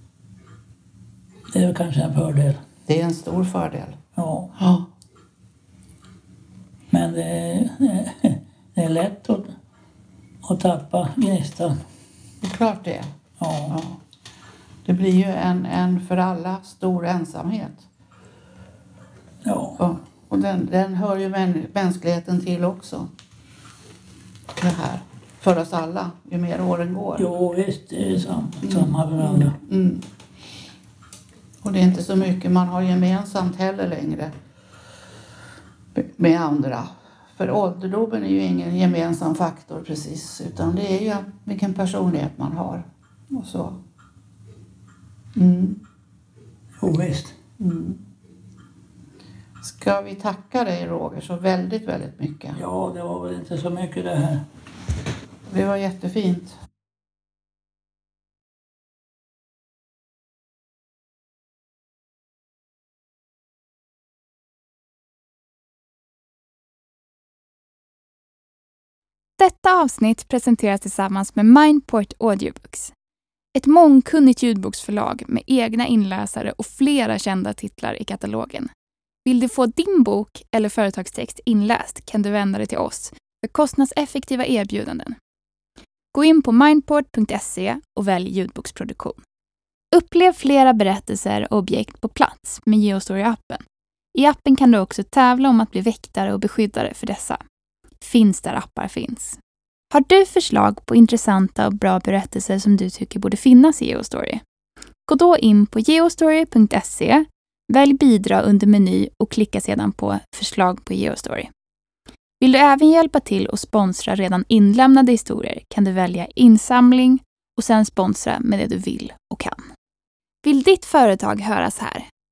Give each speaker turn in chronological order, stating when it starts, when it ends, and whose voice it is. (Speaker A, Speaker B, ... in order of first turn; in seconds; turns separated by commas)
Speaker A: 1.5-2.6, Speaker B: 2.9-4.0, Speaker A: 4.2-4.5, Speaker B: 4.6-4.9, Speaker A: 6.9-9.5, Speaker A: 10.4-11.8, Speaker B: 12.4-13.1, Speaker A: 13.4-13.8, Speaker B: 13.7-14.0, Speaker B: 14.9-17.9, Speaker A: 19.4-19.8, Speaker B: 19.8-23.1, Speaker B: 24.6-27.3, Speaker A: 27.2-29.6, Speaker B: 28.6-30.1, Speaker B: 31.6-34.3, Speaker B: 36.0-43.8, Speaker B: 45.4-45.8, Speaker A: 46.8-47.3, Speaker B: 47.6-48.0, Speaker B: 49.6-52.6, Speaker A: 52.5-54.4, Speaker B: 55.5-56.6, Speaker C: 69.4-72.9, Speaker C: 73.5-78.7, Speaker C: 79.2-85.2, Speaker C: 86.1-89.2, Speaker C: 89.9-93.6, Speaker C: 94.1-97.4, Speaker C: 98.0-99.4, Speaker C: 99.9-104.4, Speaker C: 105.1-111.5, Speaker C: 112.4-119.6, Speaker C: 120.4-122.1